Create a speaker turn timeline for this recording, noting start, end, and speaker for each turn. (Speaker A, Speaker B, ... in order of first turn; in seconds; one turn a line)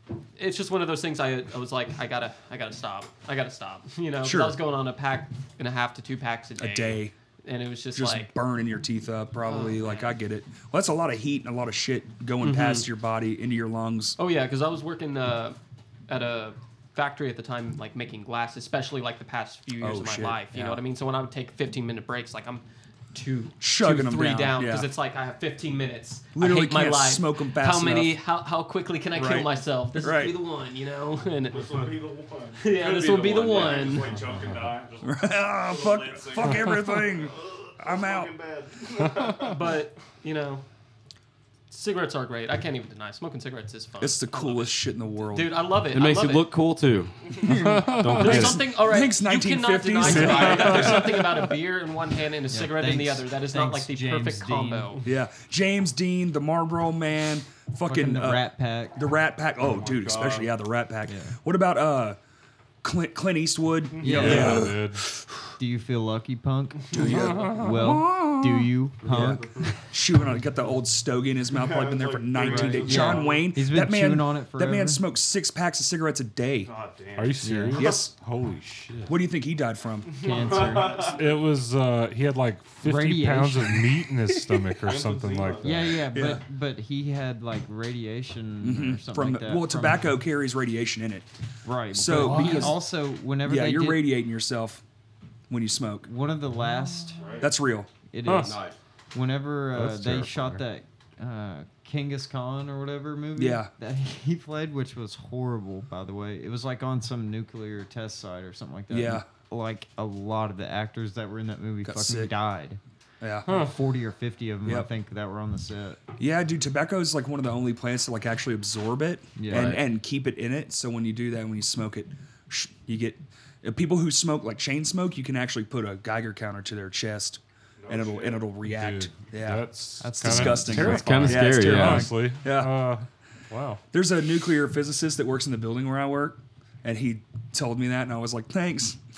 Speaker A: 0.4-8.3
Speaker B: 4.2-4.6
Speaker B: 6.6-7.1
Speaker B: 8.0-14.2
Speaker A: 9.4-10.2
Speaker A: 12.4-12.9
Speaker A: 14.2-15.6
Speaker A: 16.1-31.8
Speaker B: 19.8-20.8
Speaker B: 23.6-24.9
Speaker B: 26.4-28.1
Speaker B: 29.2-30.4
Speaker C: 31.5-39.8
Speaker A: 32.6-34.1
Speaker B: 35.0-38.3
Speaker A: 39.4-40.6
Speaker A: 41.7-46.5
Speaker B: 44.0-45.5
Speaker D: 45.9-48.7
Speaker B: 47.5-51.2
Speaker E: 47.5-48.4
Speaker A: 48.2-55.0
Speaker F: 52.5-55.0
Speaker B: 55.0-62.2
Speaker F: 57.9-59.1
Speaker C: 59.6-60.5
Speaker F: 61.1-61.4
Speaker B: 62.8-65.4
Speaker C: 63.9-64.5
Speaker F: 64.0-64.7
Speaker E: 64.1-65.1
Speaker F: 65.6-69.8
Speaker B: 66.9-76.7
Speaker C: 69.1-69.4
Speaker C: 71.5-73.5
Speaker F: 72.4-75.0
Speaker C: 76.6-77.4
Speaker E: 77.2-79.2
Speaker F: 77.4-77.9
Speaker B: 77.7-78.2
Speaker B: 79.1-80.2
Speaker C: 80.1-81.4
Speaker F: 80.2-81.1
Speaker E: 81.0-86.0
Speaker F: 82.8-84.0
Speaker C: 84.8-85.9
Speaker F: 85.6-90.1
Speaker B: 86.1-86.4
Speaker B: 88.6-91.3
Speaker F: 91.6-94.1
Speaker B: 91.9-92.8
Speaker E: 92.1-92.8
Speaker B: 93.4-94.8
Speaker B: 95.5-96.1
Speaker F: 96.0-97.4
Speaker C: 97.2-97.5
Speaker B: 97.4-97.9
Speaker F: 98.1-112.8
Speaker E: 98.3-98.5
Speaker D: 98.3-98.8
Speaker E: 99.8-100.6
Speaker B: 103.4-103.7
Speaker B: 108.9-109.3
Speaker B: 111.8-112.3
Speaker B: 113.2-113.6
Speaker F: 113.5-116.0
Speaker B: 116.2-132.9
Speaker F: 119.4-119.8
Speaker D: 119.5-119.8
Speaker C: 127.8-128.6
Speaker E: 128.6-133.8
Speaker F: 130.0-131.0
Speaker D: 130.8-132.2
Speaker B: 133.9-139.0